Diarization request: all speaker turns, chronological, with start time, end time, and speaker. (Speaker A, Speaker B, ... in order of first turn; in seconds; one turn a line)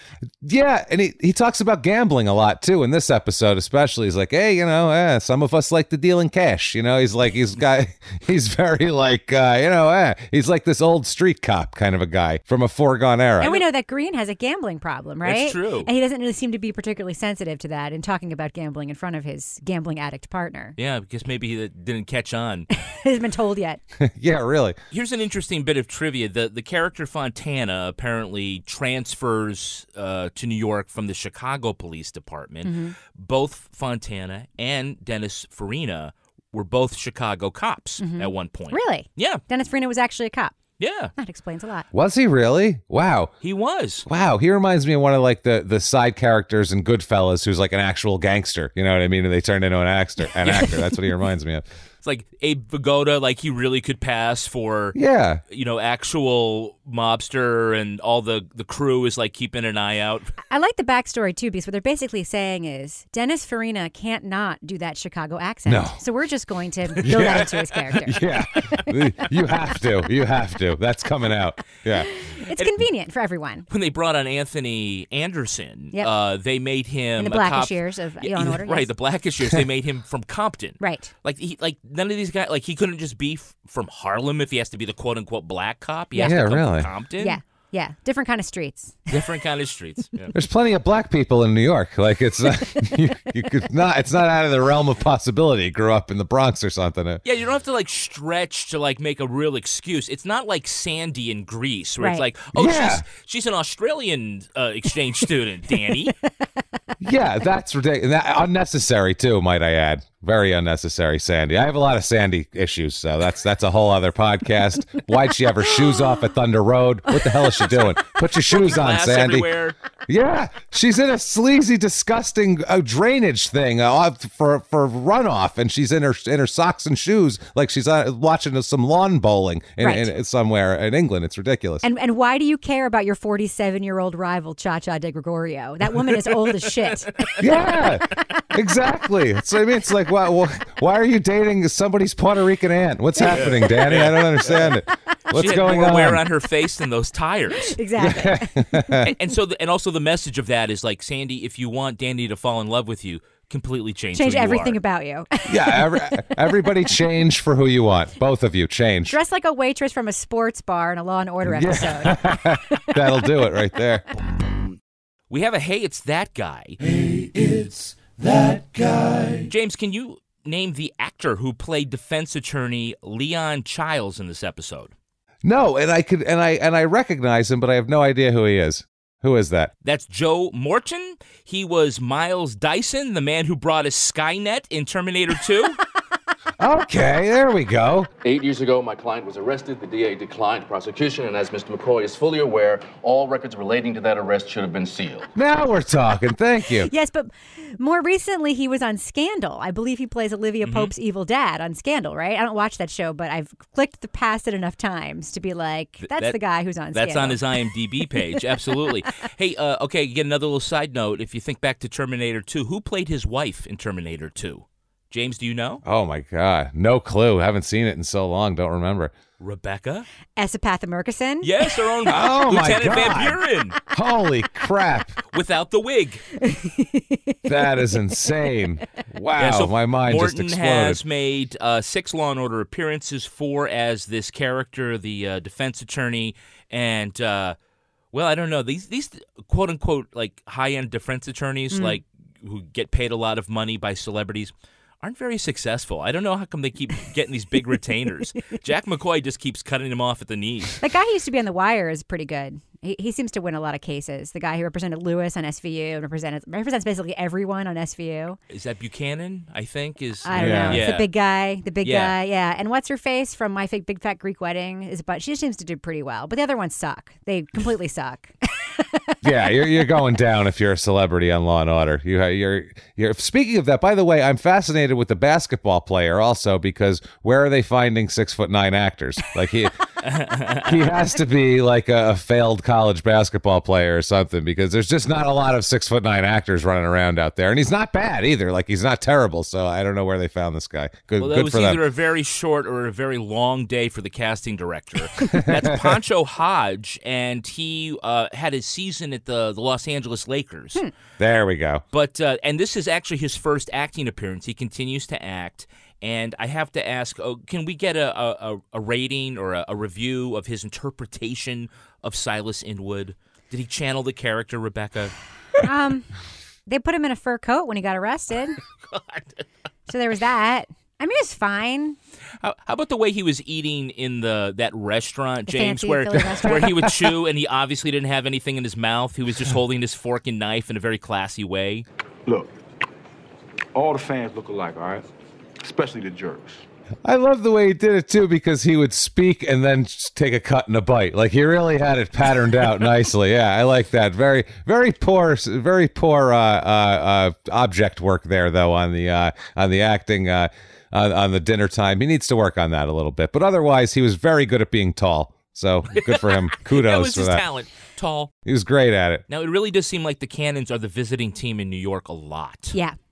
Speaker A: 0.4-13.6
Speaker B: 13.4-20.7
Speaker C: 15.2-15.9
Speaker C: 20.8-22.7
Speaker B: 22.7-23.8
Speaker A: 24.0-24.8
Speaker C: 24.9-39.4
Speaker B: 32.6-32.9
Speaker B: 38.0-40.6
Speaker C: 40.8-41.1
Speaker B: 41.2-41.9
Speaker A: 41.9-43.3
Speaker C: 43.4-44.0
Speaker A: 44.1-51.6
Speaker C: 50.4-50.8
Speaker C: 52.0-55.0
Speaker A: 54.9-55.4
Speaker C: 55.5-60.3
Speaker B: 60.5-68.9
Speaker A: 65.7-66.0
Speaker A: 67.0-72.1
Speaker B: 72.2-73.7
Speaker C: 73.7-87.4
Speaker B: 77.2-78.9
Speaker B: 80.8-81.1
Speaker A: 86.2-86.9
Speaker B: 87.2-89.0
Speaker C: 89.1-90.3
Speaker A: 90.3-97.2
Speaker C: 97.2-106.2
Speaker B: 102.0-102.2
Speaker A: 102.5-103.0
Speaker A: 107.0-119.5
Speaker C: 118.5-119.8
Speaker A: 120.1-131.8
Speaker B: 129.8-130.1
Speaker B: 131.8-137.3
Speaker A: 137.4-146.2
Speaker C: 143.2-144.7
Speaker C: 145.3-147.8
Speaker B: 147.7-149.0
Speaker A: 148.0-149.1
Speaker C: 149.0-154.8
Speaker B: 154.1-156.4
Speaker A: 155.5-159.2
Speaker B: 159.1-162.9
Speaker A: 161.4-164.0
Speaker C: 165.3-166.8
Speaker C: 169.5-174.9
Speaker A: 175.4-179.7
Speaker C: 179.8-185.8
Speaker A: 186.6-188.1
Speaker D: 188.2-195.3
Speaker A: 195.3-196.9
Speaker B: 196.8-207.4
Speaker C: 200.6-200.9
Speaker C: 206.0-206.4
Speaker C: 206.9-215.8
Speaker A: 215.8-219.1
Speaker C: 219.4-220.1
Speaker B: 220.4-221.5
Speaker C: 221.4-223.7
Speaker A: 222.1-223.4
Speaker A: 223.9-225.2
Speaker C: 225.3-226.2
Speaker B: 226.4-227.4
Speaker A: 227.4-231.0
Speaker C: 229.4-237.6
Speaker C: 238.1-250.8
Speaker B: 241.7-242.0
Speaker B: 250.8-258.4
Speaker C: 258.5-261.1
Speaker B: 260.2-269.1
Speaker A: 260.3-260.8
Speaker C: 261.8-262.1
Speaker A: 269.2-279.7
Speaker C: 280.0-280.7
Speaker A: 280.6-291.8
Speaker C: 291.2-300.8
Speaker A: 295.3-295.9
Speaker A: 301.2-301.8
Speaker C: 301.9-315.1
Speaker B: 315.6-316.1
Speaker B: 316.6-318.6
Speaker C: 318.9-319.4
Speaker B: 319.9-322.0
Speaker C: 322.4-331.8
Speaker B: 325.5-326.7
Speaker E: 332.2-332.5
Speaker E: 333.7-335.1
Speaker E: 335.6-336.6
Speaker A: 337.0-357.4
Speaker C: 355.9-358.3
Speaker A: 358.4-359.2
Speaker C: 359.3-362.8